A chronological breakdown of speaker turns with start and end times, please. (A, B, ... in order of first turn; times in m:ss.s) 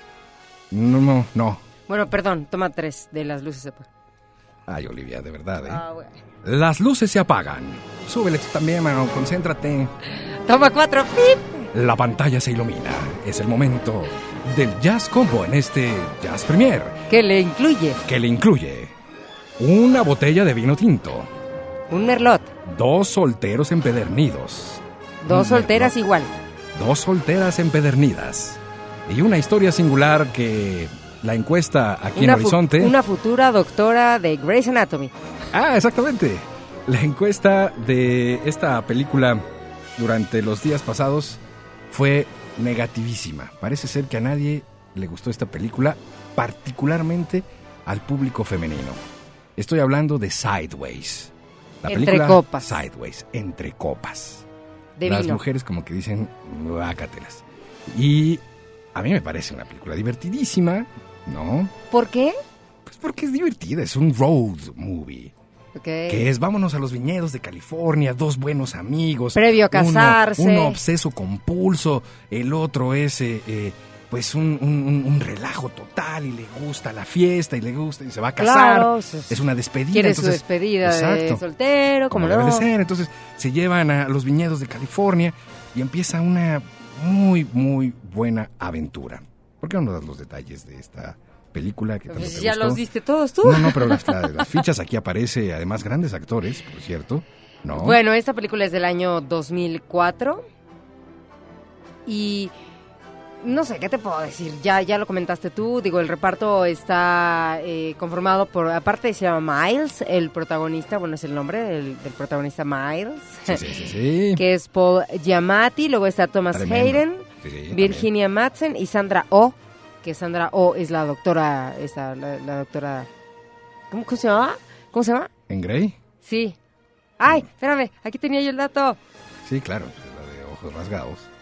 0:00.7-0:01.6 A
0:01.9-0:03.9 B
0:04.7-0:05.8 A
0:05.7-0:06.2 B
0:06.4-0:09.9 A
0:10.2-0:11.7 B
0:11.7-0:17.0 A
0:17.1-0:18.0 B
0:18.0-0:18.9 A
0:19.6-0:21.3 A
0:21.9-0:22.5 B
0:22.6-0:26.0 A
0:25.2-0:26.3 B
0:26.7-0:33.0 A
0:32.1-0:35.1 B
0:35.5-0:39.4 A
0:40.0-0:49.0 A
0:49.6-0:54.5 A
0:51.9-0:52.8 B
0:55.0-0:55.4 B
0:55.0-0:58.4 A
0:58.9-1:01.7 A
1:01.9-1:02.4 B
1:02.8-1:05.3 A
1:05.8-1:06.2 B
1:06.1-1:21.4 A
1:09.4-1:10.8 B
1:18.4-1:19.3 B
1:19.9-1:22.7 B
1:22.1-1:32.8 A
1:32.1-1:34.4 B
1:33.4-1:38.0 A
1:37.7-1:40.5 B
1:42.1-1:42.5 B
1:43.4-1:53.6 B
1:53.5-1:54.4 A
1:54.4-2:03.1 B
1:56.5-1:58.1 A
2:03.9-2:05.3 B
2:05.5-2:06.0 A
2:06.2-2:06.6 B
2:07.2-2:09.0 B
2:09.4-2:11.3 A